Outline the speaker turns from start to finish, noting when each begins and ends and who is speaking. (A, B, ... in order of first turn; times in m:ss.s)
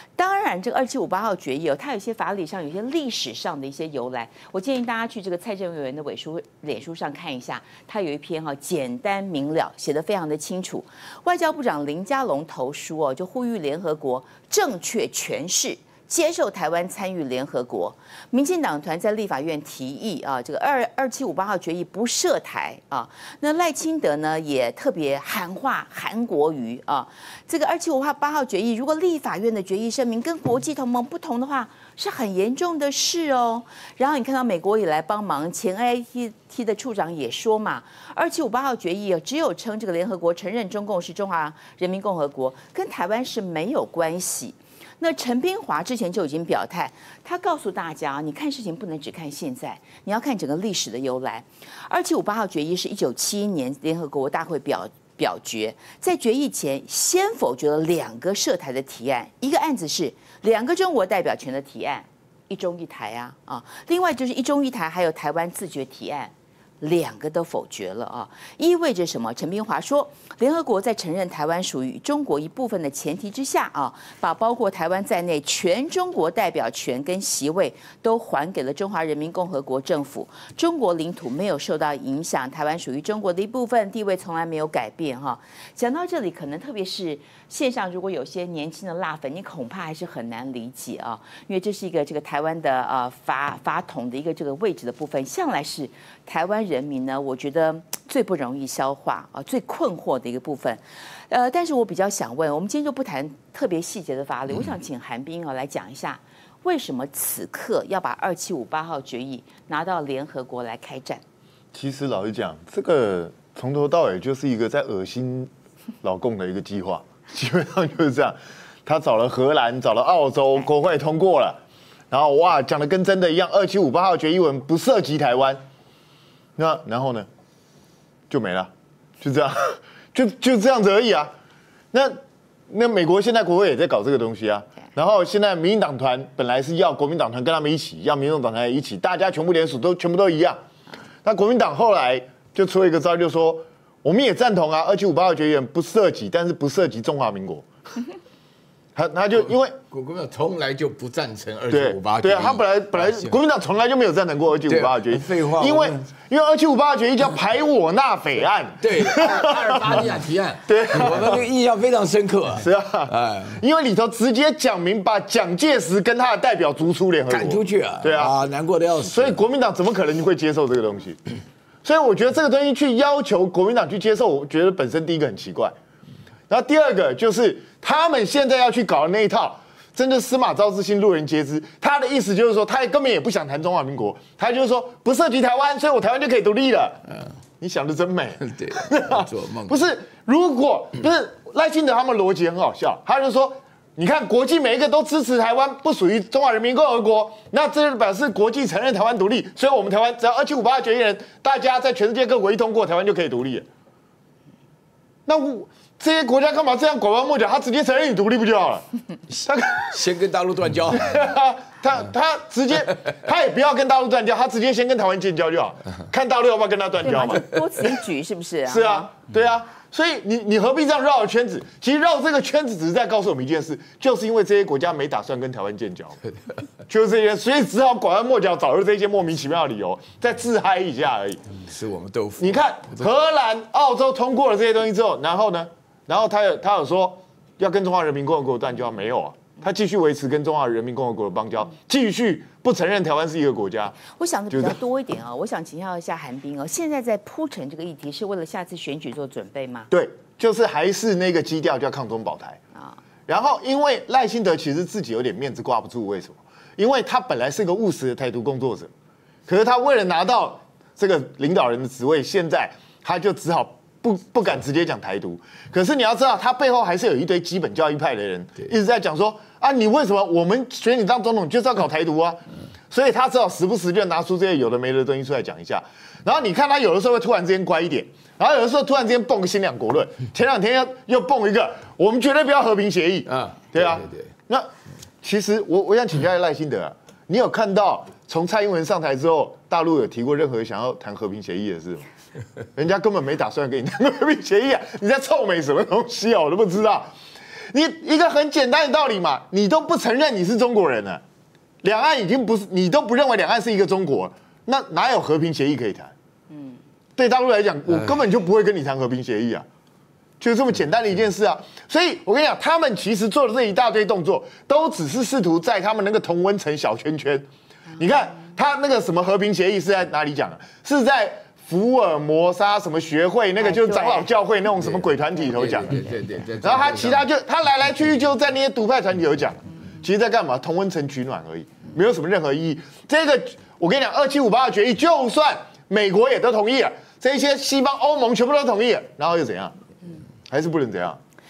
0:00.2-1:51.2 A
1:51.7-1:55.5 B
1:56.0-2:01.6 B
2:02.1-2:05.6 B
2:06.6-2:07.3 B
2:08.3-2:11.3 B
2:11.9-2:12.2 B
2:12.7-2:20.6 B
2:21.2-2:27.6 B
2:29.0-2:29.8 B
2:29.9-2:33.4 C
2:31.7-2:40.0 B
2:34.7-2:36.1 C
2:38.8-2:43.6 C
2:40.6-2:41.4 B
2:42.6-2:48.4 B
2:47.3-2:49.4 C
2:49.0-2:51.2 B
2:51.8-2:55.8 B
2:56.5-3:07.0 B
3:07.6-3:23.7 B
3:08.5-3:09.8 C
3:25.3-3:28.9 B
3:29.3-3:31.3 C
3:29.5-3:29.9 B
3:31.0-3:37.4 B
3:37.0-3:39.1 A
3:38.7-3:46.2 B
3:46.9-3:51.4 B
3:51.6-3:53.1 C
3:52.4-4:04.8 B
4:04.1-4:09.9 A
4:09.9-4:12.6 B
4:13.3-4:18.9 B
4:19.5-4:44.7 B
4:43.3-4:44.3 C
4:45.2-4:52.0 B
4:52.8-4:57.1 B
4:57.7-5:01.2 B
5:01.8-5:06.1 B
5:07.2-5:09.6 B
5:10.4-5:26.0 B
5:23.6-5:24.3 A
5:24.8-5:27.2 C
5:26.6-5:39.8 B
5:40.5-5:41.2 B